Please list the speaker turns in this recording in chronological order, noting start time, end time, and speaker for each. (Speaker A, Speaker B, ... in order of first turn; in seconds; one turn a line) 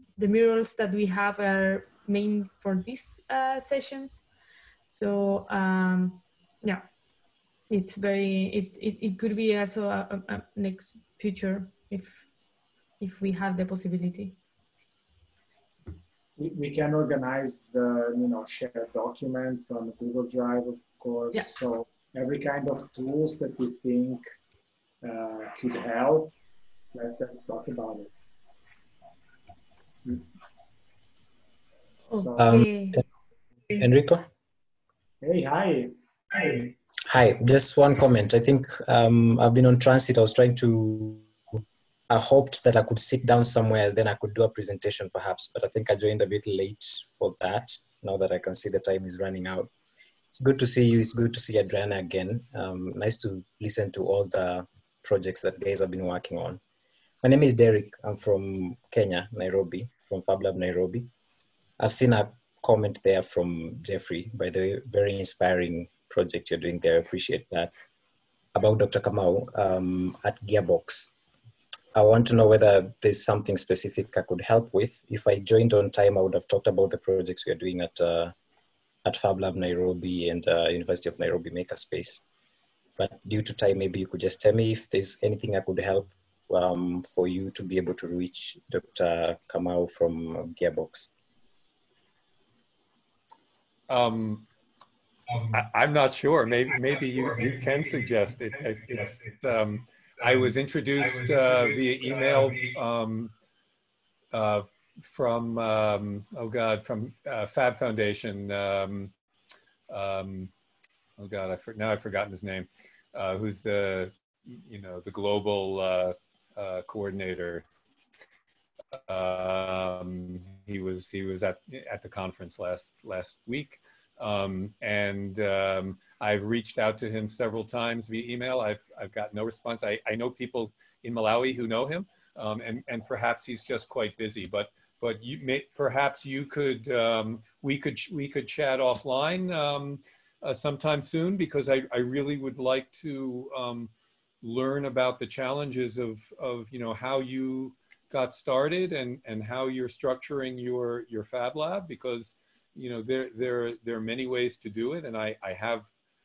Speaker A: 0.2-4.2
Speaker A: 4.9-6.8
Speaker A: 7.7-12.2
Speaker A: 13.0-14.3
Speaker B: 16.4-24.2
Speaker B: 25.0-26.3
Speaker B: 26.9-28.2
Speaker A: 32.1-33.0
Speaker B: 32.1-32.4
Speaker C: 32.4-33.0
Speaker C: 33.8-34.2
Speaker B: 35.2-36.7
Speaker C: 37.1-49.7
Speaker C: 50.3-56.6
Speaker C: 57.2-61.1
Speaker C: 61.8-67.7
Speaker C: 68.5-71.1
Speaker C: 71.9-78.3
Speaker C: 79.0-82.2
Speaker C: 83.0-91.1
Speaker D: 93.9-94.4
Speaker D: 95.5-103.3
Speaker D: 104.3-109.1
Speaker D: 109.9-110.5
Speaker D: 111.2-117.6
Speaker D: 119.1-143.9
Speaker D: 144.4-155.9